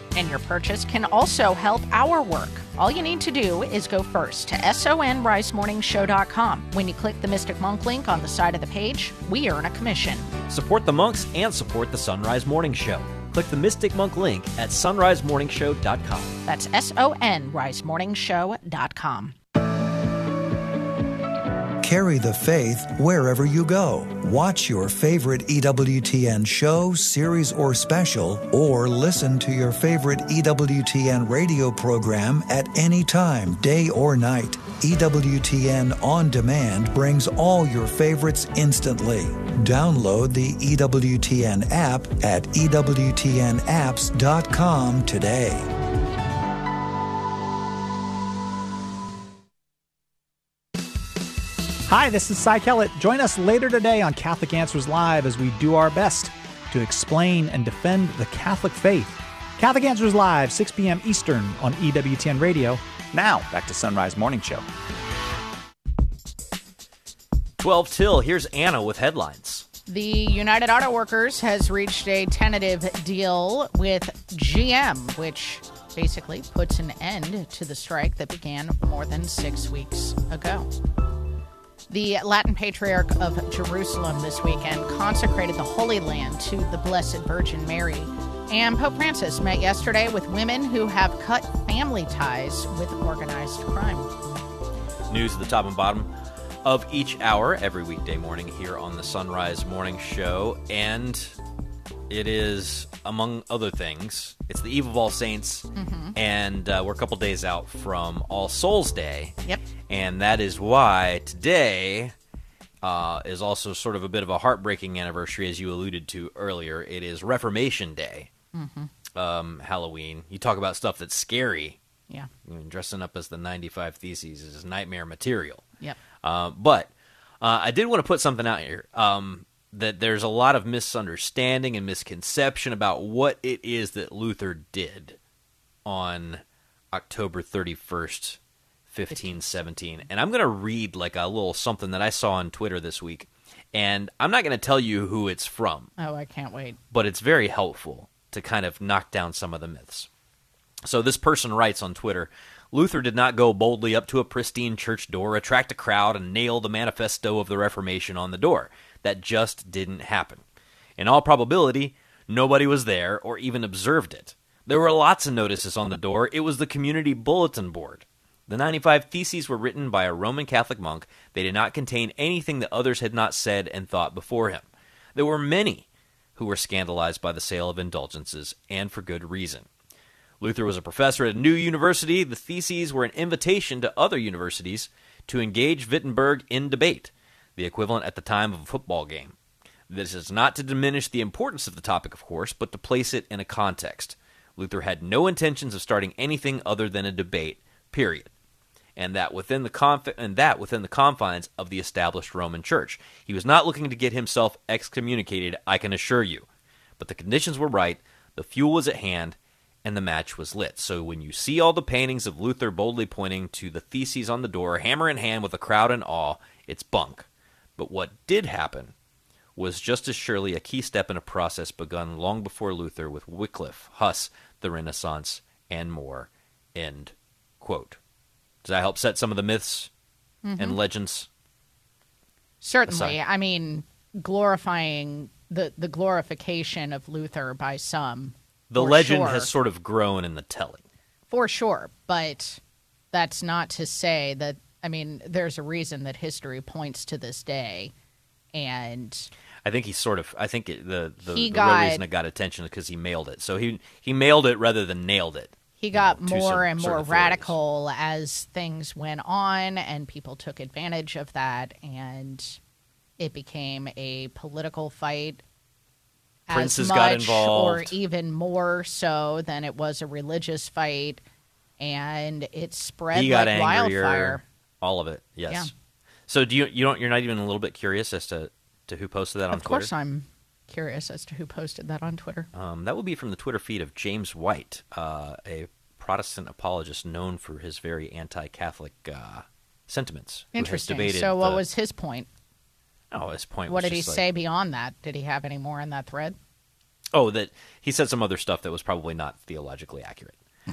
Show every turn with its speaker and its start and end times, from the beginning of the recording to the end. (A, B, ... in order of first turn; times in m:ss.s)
0:00.1-0:10.3 A
0:10.5-0:16.3 B
0:16.4-0:19.4 A
0:21.8-0:45.7 C
0:51.9-1:04.6 D
1:07.6-1:09.6 B
1:09.9-1:20.7 A
1:21.9-1:34.1 A
1:35.1-1:36.1 B
1:36.6-1:41.4 B
1:42.1-1:49.4 B
1:45.8-1:46.1 A
1:49.9-1:52.1 B
1:52.8-1:58.3 B
1:58.5-1:58.9 A
1:59.1-2:01.8 B
2:02.4-2:05.6 B
2:06.2-2:06.9 B
2:07.4-2:15.2 B
2:15.9-2:25.9 B
2:26.0-2:26.8 A
2:26.9-2:30.1 B
2:30.8-2:40.4 B
2:41.0-2:59.7 B
3:00.4-3:09.4 B
3:09.9-3:18.3 B
3:19.0-3:26.5 B
3:27.0-3:37.3 B
3:37.8-3:38.9 B
3:39.6-3:48.0 B
3:48.6-3:49.9 B
3:50.4-3:50.8 A
3:50.6-3:51.3 B
3:52.6-3:59.5 A
3:52.9-3:53.2 B
3:58.7-4:00.8 B
4:01.3-4:02.6 A
4:03.1-4:07.9 A
4:08.5-4:09.3 A
4:09.6-4:17.6 B
4:11.3-4:12.0 A
4:15.8-4:22.6 A
4:23.2-4:25.4 A
4:26.5-4:31.2 A
4:26.5-4:28.0 B
4:31.8-4:34.4 A
4:33.1-4:35.7 B
4:36.3-4:39.9 B
4:39.5-4:42.5 A
4:42.5-4:51.6 B
4:50.6-4:52.3 A
4:53.1-4:54.2 B
4:53.7-4:56.4 A
4:57.1-5:00.4 B